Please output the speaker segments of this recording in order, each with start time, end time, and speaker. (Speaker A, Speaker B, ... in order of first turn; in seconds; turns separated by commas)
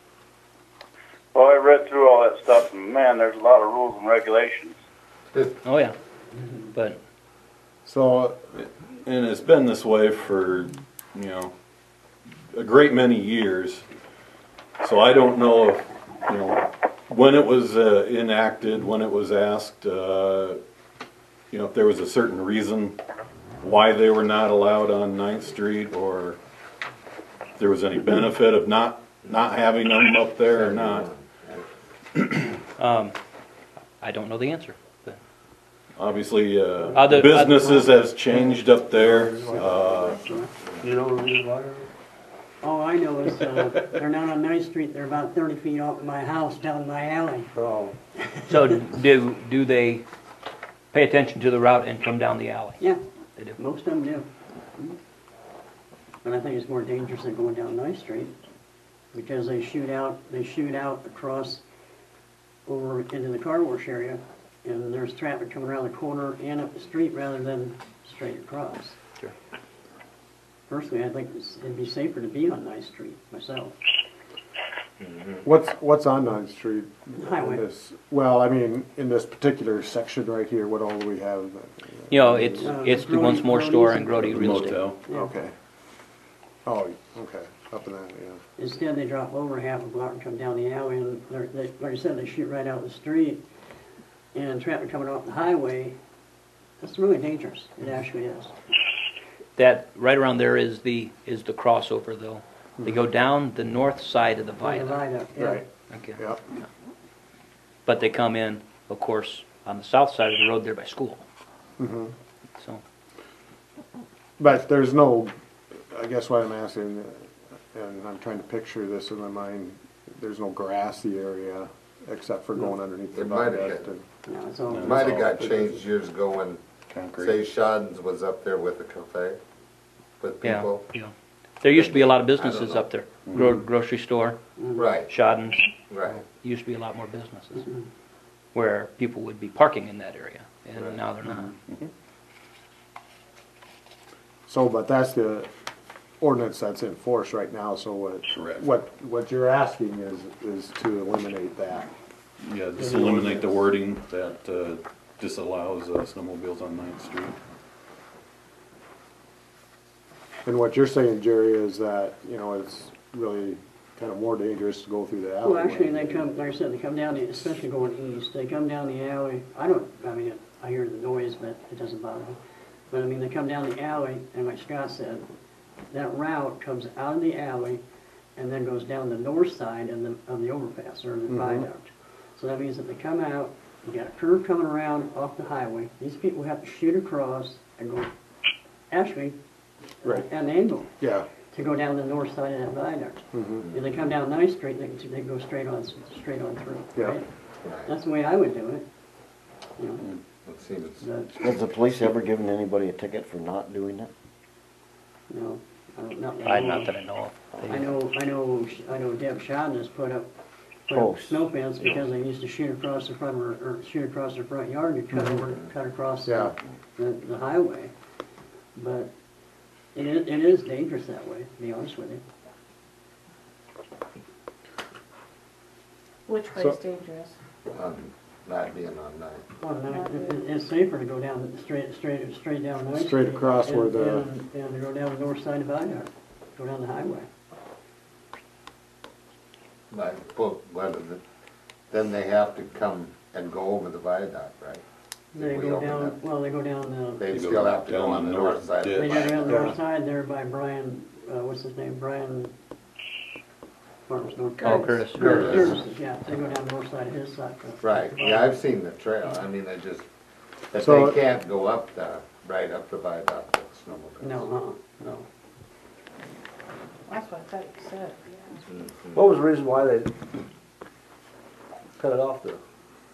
Speaker A: 1.3-4.8, Speaker B: 5.6-6.0, Speaker B: 6.7-7.0, Speaker C: 7.9-8.4, Speaker D: 8.6-11.5, Speaker D: 12.5-13.8, Speaker D: 14.8-20.6, Speaker D: 21.5-23.0, Speaker D: 23.6-26.4, Speaker D: 27.6-31.1, Speaker E: 30.5-31.7, Speaker D: 32.1-32.5, Speaker B: 32.8-33.2, Speaker B: 34.0-35.2, Speaker D: 36.0-40.3, Speaker B: 36.9-37.9, Speaker F: 39.0-40.0, Speaker G: 40.2-40.5, Speaker F: 40.8-41.9, Speaker G: 42.6-47.5, Speaker F: 47.5-48.0, Speaker B: 48.5-50.0, Speaker B: 50.9-52.8, Speaker G: 53.6-55.0, Speaker G: 56.2-58.4, Speaker G: 59.1-61.6, Speaker G: 62.7-69.0, Speaker G: 70.7-73.8, Speaker E: 75.0-75.4, Speaker C: 75.4-82.7, Speaker G: 77.2-77.6, Speaker B: 82.1-84.9, Speaker G: 82.5-85.3, Speaker D: 84.2-85.0, Speaker C: 85.1-85.5, Speaker C: 86.7-88.4, Speaker G: 88.6-93.5, Speaker G: 94.3-96.0, Speaker G: 96.8-98.5, Speaker B: 99.6-105.0, Speaker G: 104.6-105.7, Speaker C: 105.4-106.4, Speaker B: 105.9-106.2, Speaker B: 107.9-111.2, Speaker C: 111.8-112.1, Speaker C: 114.4-124.0, Speaker E: 123.1-123.9, Speaker G: 124.3-125.0, Speaker D: 124.7-125.7, Speaker E: 124.8-126.6, Speaker D: 126.9-127.4, Speaker E: 127.2-129.4, Speaker E: 130.2-130.9, Speaker B: 130.4-134.4, Speaker E: 131.7-132.9, Speaker D: 133.3-133.5, Speaker G: 134.6-134.8, Speaker E: 134.8-135.1, Speaker B: 135.0-137.7, Speaker E: 135.9-136.2, Speaker B: 138.5-141.6, Speaker C: 144.5-145.5, Speaker C: 146.2-151.9, Speaker D: 148.3-148.6, Speaker D: 152.4-157.4, Speaker G: 152.9-153.4, Speaker C: 160.4-166.3, Speaker G: 165.4-172.4, Speaker G: 172.9-175.3, Speaker G: 175.9-177.8, Speaker G: 178.4-188.1, Speaker C: 181.3-181.7, Speaker G: 188.9-189.4, Speaker G: 190.0-190.9, Speaker C: 191.0-191.3, Speaker G: 191.5-197.3, Speaker C: 193.3-193.7, Speaker E: 197.6-197.9, Speaker G: 197.8-198.9, Speaker G: 199.8-200.1, Speaker E: 200.5-201.0, Speaker G: 201.0-201.3, Speaker H: 201.3-204.1, Speaker G: 205.3-206.9, Speaker B: 206.4-207.8, Speaker G: 207.6-210.3, Speaker G: 210.9-217.9, Speaker H: 210.9-211.5, Speaker C: 215.1-215.4, Speaker C: 216.2-216.5, Speaker G: 218.8-219.1, Speaker G: 219.9-222.2, Speaker I: 226.3-227.3, Speaker C: 226.5-226.8, Speaker E: 227.7-229.4, Speaker G: 229.6-237.3, Speaker I: 229.9-230.5, Speaker C: 232.9-234.3, Speaker E: 239.9-241.2, Speaker E: 241.9-244.8, Speaker G: 245.3-247.3, Speaker E: 245.3-246.2, Speaker E: 247.2-249.8, Speaker D: 247.3-249.2, Speaker G: 248.9-252.5, Speaker G: 254.1-258.6, Speaker B: 254.6-255.7, Speaker I: 254.7-255.4, Speaker E: 255.2-255.6, Speaker E: 257.8-260.1, Speaker E: 260.7-264.5, Speaker C: 260.8-261.2, Speaker G: 264.2-265.3, Speaker I: 267.1-268.6, Speaker E: 268.7-269.3, Speaker F: 269.1-270.2, Speaker F: 272.0-272.6